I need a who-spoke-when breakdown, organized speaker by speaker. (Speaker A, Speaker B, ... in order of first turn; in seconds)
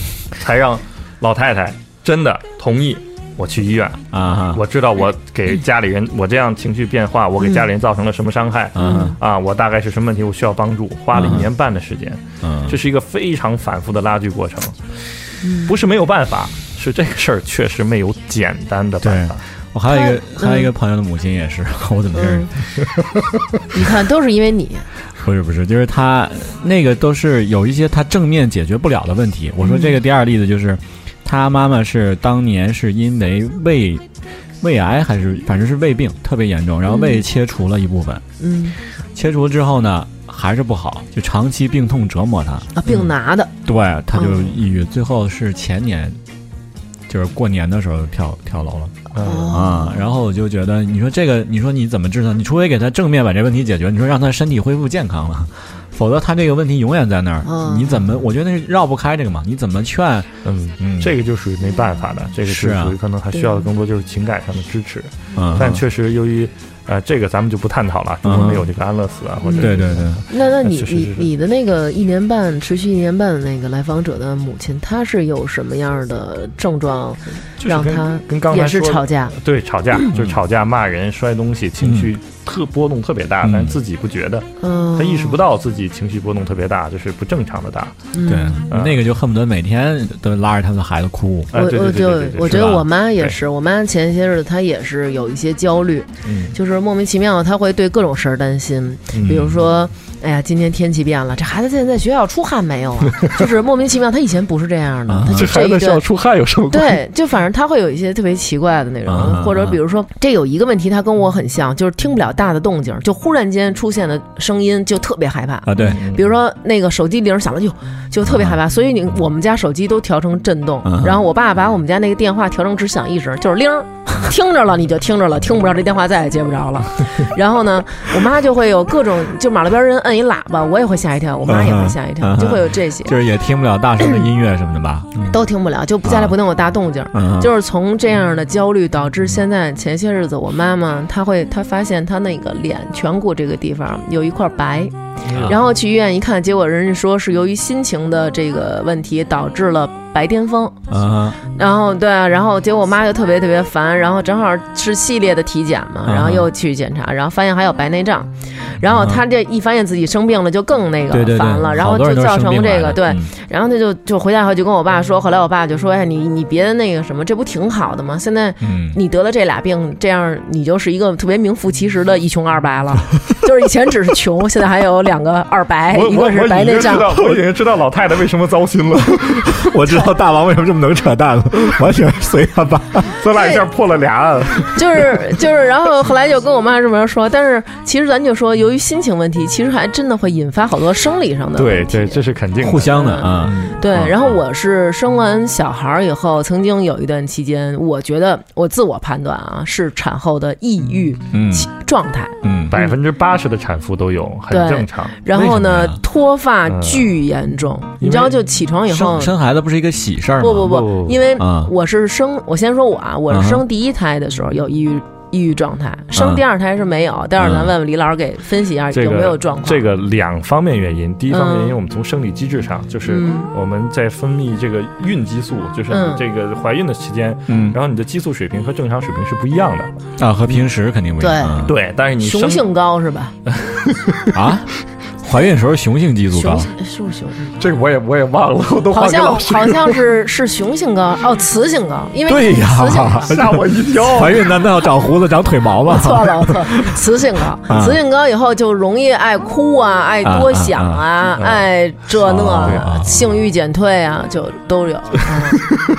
Speaker A: 0.3-14.8, 15.6-19.4, 49.1-49.6, 60.4-71.3, 77.6-88.1, 88.7-89.0, 91.5-93.4, 96.2-96.5, 99.1-99.4, 105.3-107.0, 115.8-116.2, 145.3-145.5, 175.9-179.7, 183.2-185.2, 191.6-194.4, 202.7-205.2, 206.7-207.1, 208.0-208.4, 210.6-211.2, 218.9-229.9, 231.6-232.7, 233.5-234.3, 237.6-240.0, 243.3-244.5, 251.4-251.7, 252.5-252.9
Speaker B: 4.1-4.6, 8.8-9.2, 11.1-11.5, 12.4-12.8, 19.0-22.7, 25.2-34.1, 34.6-38.2, 39.1-43.1, 43.6-46.2, 47.1-48.9, 49.5-61.1, 62.5-63.0, 65.4-65.8, 68.2-68.7, 69.6-70.2, 81.8-82.1, 83.4-83.8, 88.2-91.5, 92.5-92.8, 99.2-99.5, 105.1-105.5, 109.1-109.8, 115.7-116.1, 118.2-118.6, 120.8-121.2, 131.5-135.3, 136.0-136.4, 137.1-137.5, 145.3-145.6, 150.9-151.4, 156.0-156.5, 158.9-159.2, 161.1-163.3, 168.6-169.0, 179.3-183.2, 192.6-193.7, 201.3-201.7, 202.4-202.8, 205.3-206.0, 208.9-210.8, 211.4-211.7, 213.3-213.6, 216.2-216.4, 217.4-217.7, 227.5-227.8, 230.2-231.8, 234.3-234.7, 235.2-236.7, 242.2-247.0, 247.7-248.0, 250.2-251.0, 252.2-253.3
Speaker C: 8.8-9.2, 15.4-15.7, 19.9-20.7, 22.1-22.5, 23.7-24.9, 29.6-30.0, 36.9-37.2, 38.4-38.8, 42.8-43.5, 44.1-44.5, 49.2-50.1, 57.4-58.2, 63.3-63.6, 69.4-79.4, 84.6-85.4, 88.1-88.7, 91.5-106.0, 106.7-133.2, 135.3-150.8, 151.5-177.3, 183.3-183.7, 184.8-203.0, 204.5-209.4, 210.4-219.8, 221.3-221.8, 223.1-223.5, 225.9-226.2, 231.2-231.7, 232.2-233.3, 236.3-237.6, 238.9-243.4, 245.9-255.7